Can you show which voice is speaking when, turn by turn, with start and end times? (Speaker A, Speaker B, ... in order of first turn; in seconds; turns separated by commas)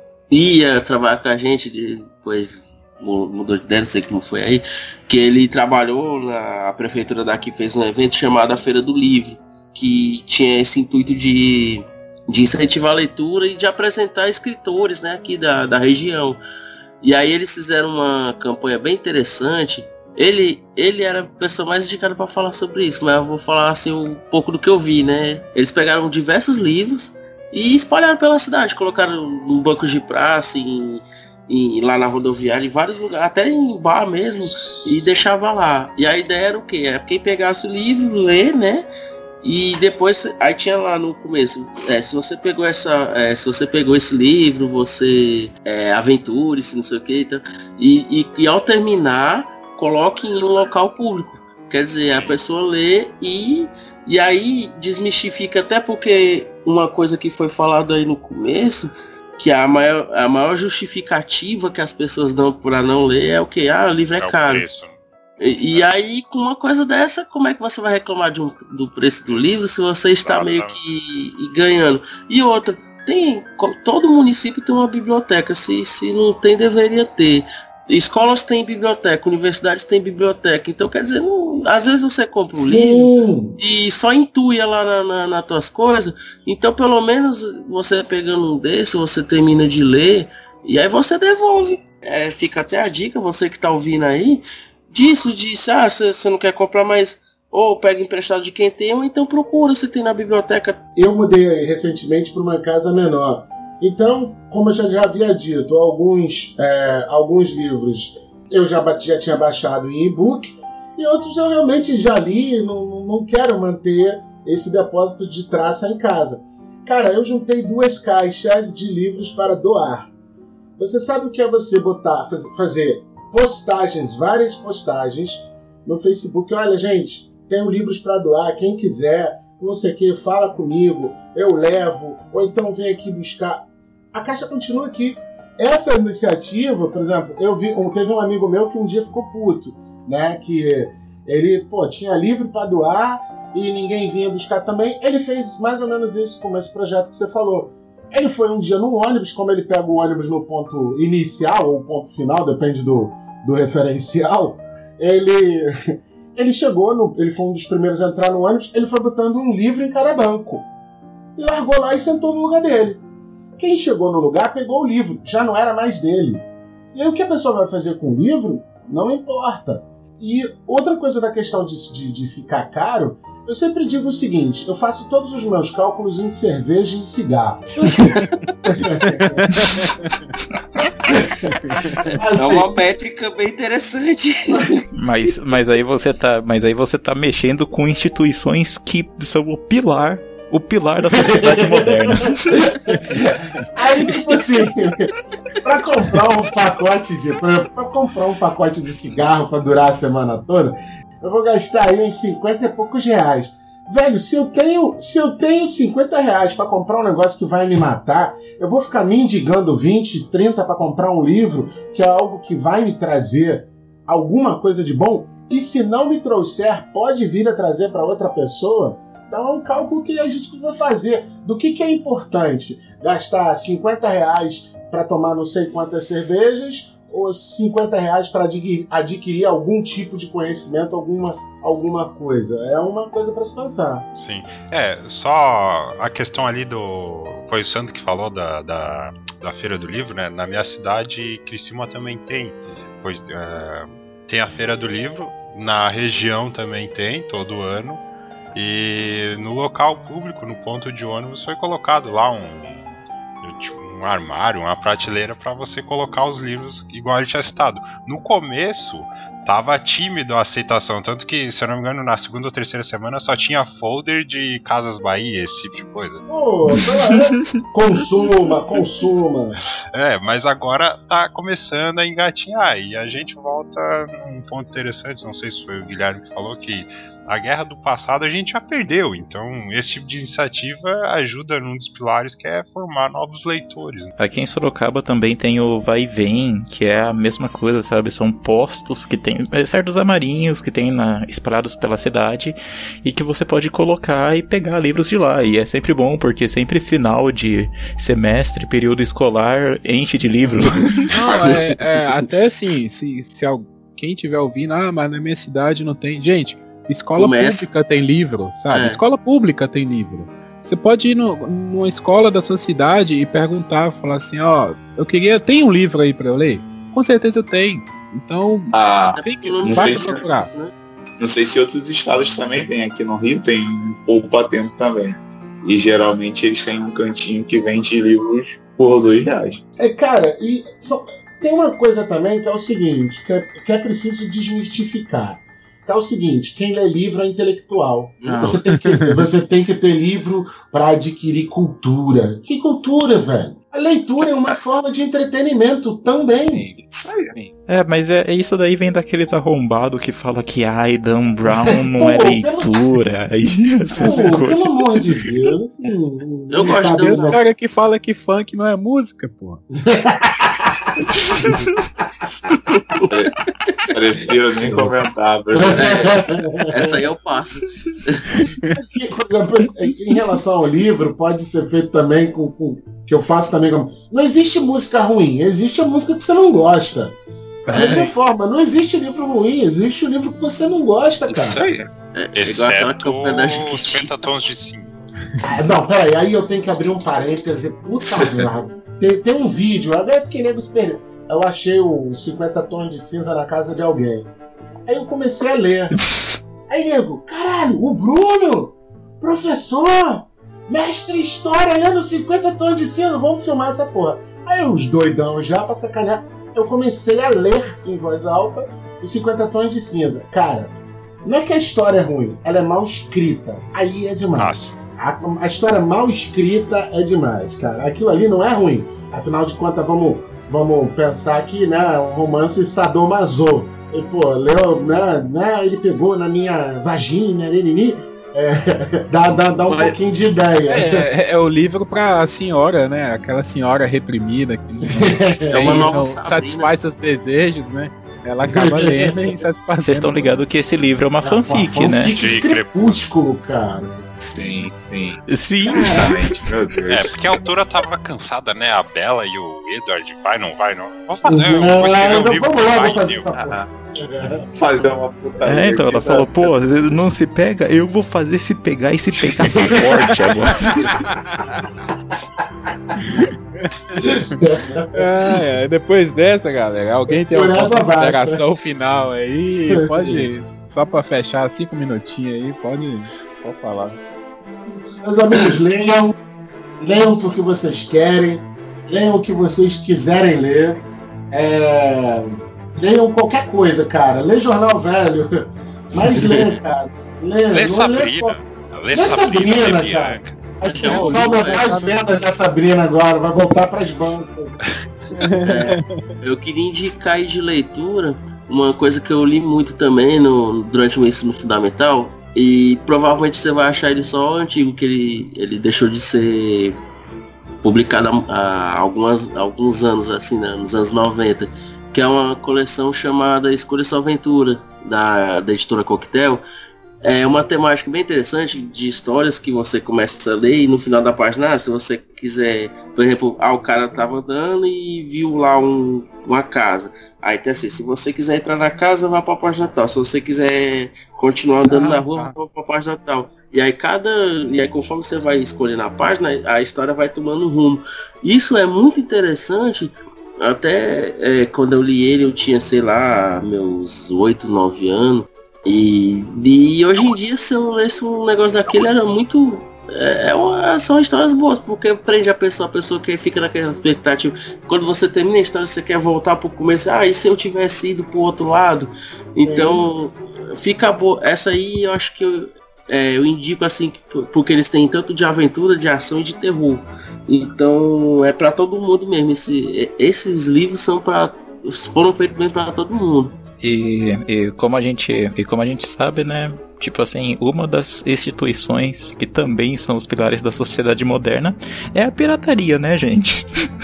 Speaker A: 0.3-16.4, Speaker A: 17.0-38.9, Speaker A: 39.4-64.7, Speaker B: 64.2-65.9, Speaker A: 65.4-100.8, Speaker B: 70.2-70.8, Speaker C: 82.5-83.6, Speaker C: 101.0-120.1, Speaker C: 120.8-160.7, Speaker C: 161.4-163.0, Speaker C: 163.6-179.4, Speaker D: 179.4-180.3, Speaker C: 181.1-181.5, Speaker D: 181.5-182.0, Speaker A: 182.0-184.9, Speaker C: 182.2-182.7, Speaker E: 185.0-192.7, Speaker C: 191.1-195.1, Speaker C: 195.6-234.1, Speaker B: 234.2-248.0, Speaker B: 248.5-266.2, Speaker C: 266.3-269.6, Speaker E: 266.7-267.4, Speaker B: 269.9-284.1, Speaker E: 284.2-301.1, Speaker D: 301.1-320.5, Speaker A: 307.2-307.7, Speaker A: 308.7-309.0, Speaker F: 318.7-320.2, Speaker A: 319.1-320.7, Speaker F: 321.2-329.6, Speaker C: 329.8-346.7, Speaker A: 338.2-338.6, Speaker D: 338.2-339.3, Speaker F: 344.2-344.6, Speaker D: 346.5-347.5, Speaker F: 346.8-347.4, Speaker E: 347.7-354.7, Speaker C: 351.5-352.8, Speaker C: 354.0-357.4, Speaker A: 356.5-357.4, Speaker D: 356.7-359.6, Speaker C: 359.8-361.5, Speaker A: 362.9-363.3, Speaker F: 363.1-366.3, Speaker C: 365.5-367.0, Speaker A: 365.7-366.2, Speaker A: 366.7-368.3, Speaker D: 368.4-368.8, Speaker C: 368.8-381.6, Speaker A: 377.7-378.1, Speaker F: 377.8-378.0, Speaker F: 381.3-381.9, Speaker A: 382.1-384.1, Speaker B: 382.4-384.9, Speaker C: 385.4-394.3, Speaker F: 388.0-388.5, Speaker C: 394.9-396.0, Speaker C: 396.7-431.1, Speaker B: 414.3-414.8, Speaker A: 429.7-430.0, Speaker D: 430.7-440.4, Speaker C: 434.9-435.9, Speaker A: 435.5-436.7, Speaker C: 438.4-439.1, Speaker E: 439.8-442.1, Speaker C: 441.2-444.0, Speaker B: 442.0-442.8, Speaker F: 444.2-447.4, Speaker E: 445.3-446.2, Speaker C: 445.7-446.2, Speaker B: 446.9-453.5, Speaker C: 451.3-454.5, Speaker F: 454.5-456.5, Speaker E: 455.4-460.7, Speaker C: 459.5-459.9, Speaker C: 462.4-462.9, Speaker D: 463.1-464.0, Speaker C: 464.0-465.4, Speaker D: 464.9-474.0, Speaker C: 467.3-468.4, Speaker C: 469.8-470.3, Speaker C: 475.0-476.1, Speaker C: 476.8-488.4, Speaker A: 486.2-486.5, Speaker B: 487.5-490.5, Speaker C: 488.9-495.3, Speaker D: 490.8-492.2, Speaker A: 490.8-491.7, Speaker D: 495.2-496.1, Speaker A: 495.4-506.8, Speaker A: 507.6-516.4, Speaker A: 517.0-573.4, Speaker D: 531.7-532.4, Speaker C: 559.4-559.9, Speaker E: 573.6-583.5